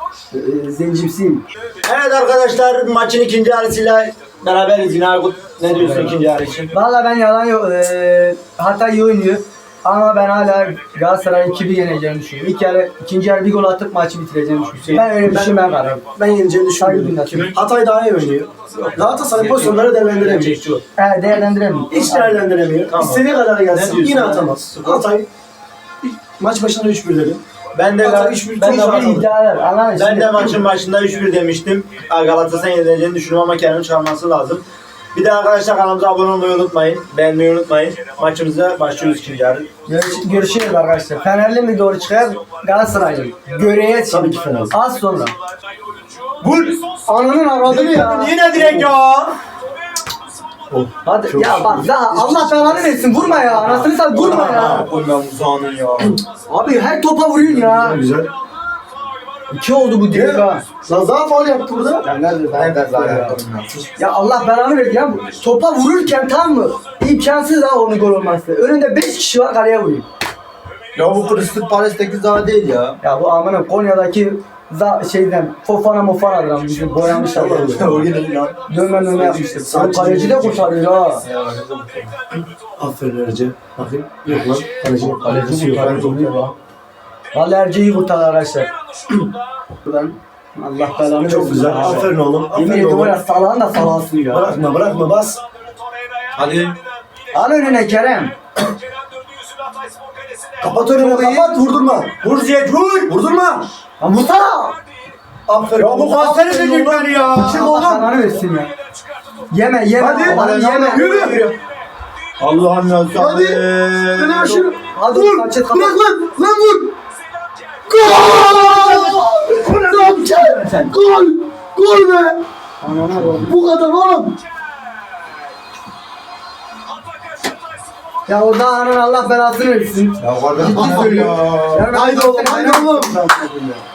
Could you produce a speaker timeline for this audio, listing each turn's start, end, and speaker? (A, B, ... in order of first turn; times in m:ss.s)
0:00.3-0:01.4 A
0:01.8-0:06.7 B
0:05.7-0:06.1 A
0:06.7-0:16.0 A
0:15.0-0:15.6 C
0:16.1-0:20.6 C
0:16.8-0:17.5 A
0:17.2-0:17.6 B
0:18.7-0:20.8 B
0:21.0-0:22.4 A
0:21.9-0:25.3 C
0:22.8-0:25.1 B
0:26.0-0:27.4 C
0:27.7-0:29.3 B
0:28.0-0:29.1 C
0:28.6-0:30.6 A
0:29.9-0:39.7 B
0:39.9-0:45.3 A
0:44.1-0:44.7 C
0:46.4-0:46.8 B
0:47.0-0:48.9 A
0:47.6-0:49.4 B
0:50.7-0:53.7 C
0:51.0-0:54.9 A
0:53.4-0:56.2 B
0:54.3-0:54.7 C
0:56.5-0:58.0 A
0:57.4-0:58.3 C
0:59.5-1:00.6 A
1:00.1-1:02.0 C
1:02.0-1:03.4 A
1:02.5-1:03.8 B
1:04.0-1:10.0 A
1:11.0-1:13.0 B
1:13.0-1:17.8 A
1:17.0-1:18.6 B
1:17.1-1:18.1 C
1:18.7-1:21.2 A
1:19.2-1:20.8 C
1:21.2-1:22.2 B
1:22.8-1:26.3 C
1:25.0-1:26.4 B
1:26.2-1:26.5 A
1:27.3-1:28.7 A
1:29.8-1:34.6 A
1:31.2-1:33.2 C
1:31.7-1:32.3 B
1:34.3-1:35.4 C
1:36.4-1:36.8 B
1:37.3-1:38.3 A
1:40.6-1:42.2 C
1:40.9-1:41.6 A
1:42.2-1:43.1 B
1:43.1-1:43.7 C
1:44.0-1:44.8 A
1:45.5-1:48.0 C
1:45.8-1:48.0 B
1:46.7-1:48.7 A
1:49.5-1:51.0 A
1:50.0-1:51.6 B
1:50.0-1:51.5 C
1:52.4-1:54.5 B
1:53.1-1:56.9 C
1:54.4-1:56.0 A
1:57.9-2:02.4 C
1:58.2-2:00.9 B
2:00.1-2:00.9 A
2:02.8-2:03.6 A
2:03.2-2:04.4 C
2:08.2-2:13.8 A
2:10.2-2:11.9 B
2:10.6-2:13.6 C